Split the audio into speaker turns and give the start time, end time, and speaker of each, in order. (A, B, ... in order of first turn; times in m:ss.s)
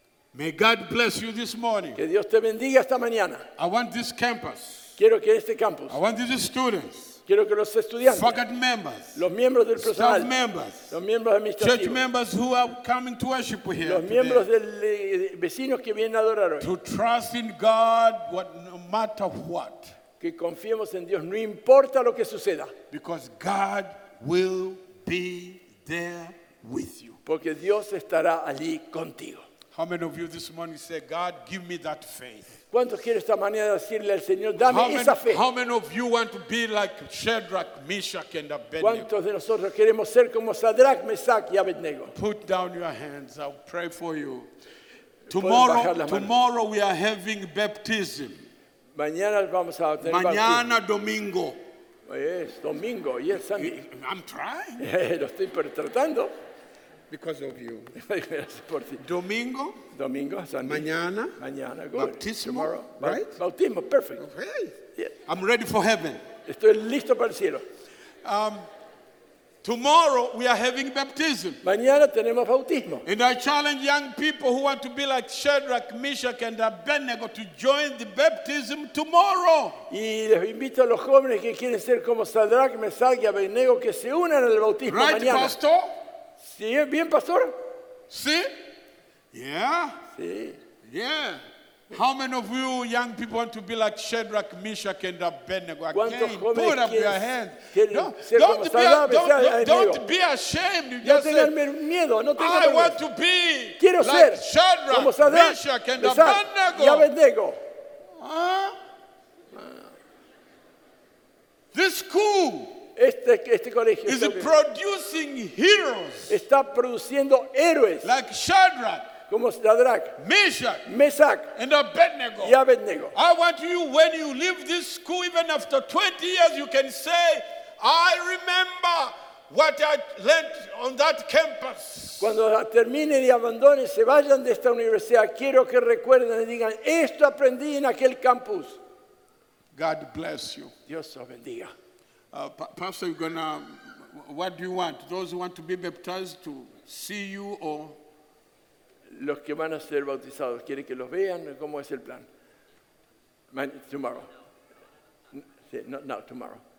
0:00.3-0:02.0 A
0:02.0-0:03.4 B
0:03.6-0:04.9 A
0:05.0-0:06.0 B
0:05.9-0:07.2 A
0:07.3-0:08.4 B
0:08.1-0:09.2 A
0:09.1-0:10.3 B
0:09.8-0:10.9 A
0:10.9-0:12.0 B
0:11.6-0:14.4 A
0:13.8-0:16.7 B
0:16.6-0:19.9 A
0:20.2-0:22.7 B
0:22.9-0:27.2 A
0:27.2-0:29.4 B
0:29.7-0:32.5 A
0:32.7-0:35.4 B
0:34.6-0:39.1 A
0:38.8-0:42.1 B
0:42.1-0:44.5 A
0:45.3-0:46.3 B
0:45.3-0:48.4 A
0:49.0-0:50.6 B
0:50.0-0:51.6 A
0:52.1-0:53.8 B
0:53.5-0:54.8 A
0:54.8-0:56.3 B
0:57.1-0:57.9 A
0:58.0-0:59.0 B
0:59.0-0:59.8 A
0:59.9-1:04.2 B
1:00.6-1:01.4 A
1:02.0-1:03.3 A
1:04.2-1:04.7 A
1:05.3-1:06.2 A
1:06.4-1:07.6 B
1:08.2-1:08.6 A
1:09.6-1:11.6 A
1:11.6-1:13.0 B
1:13.0-1:19.8 A
1:19.9-1:25.6 B
1:24.9-1:25.9 A
1:26.4-1:27.6 B
1:28.1-1:28.5 A
1:29.3-1:30.0 A
1:30.2-1:30.6 B
1:30.8-1:41.6 A
1:35.9-1:40.0 B
1:41.0-1:43.0 B
1:42.4-1:47.1 A
1:43.8-1:47.6 B
1:48.2-1:48.7 A
1:51.7-1:52.8 A
1:53.0-1:54.5 B
1:54.1-1:56.3 A
1:56.3-1:58.1 B
1:58.0-1:59.1 A
1:59.3-2:00.2 B
2:00.2-2:00.9 A
2:00.9-2:01.5 B
2:01.5-2:02.6 A
2:02.4-2:03.1 B
2:03.1-2:12.4 A
2:12.2-2:18.8 B
2:19.7-2:20.7 A
2:20.9-2:21.7 B
2:22.3-2:28.0 A
2:29.1-2:32.3 B
2:33.5-2:34.3 B
2:35.3-2:36.6 B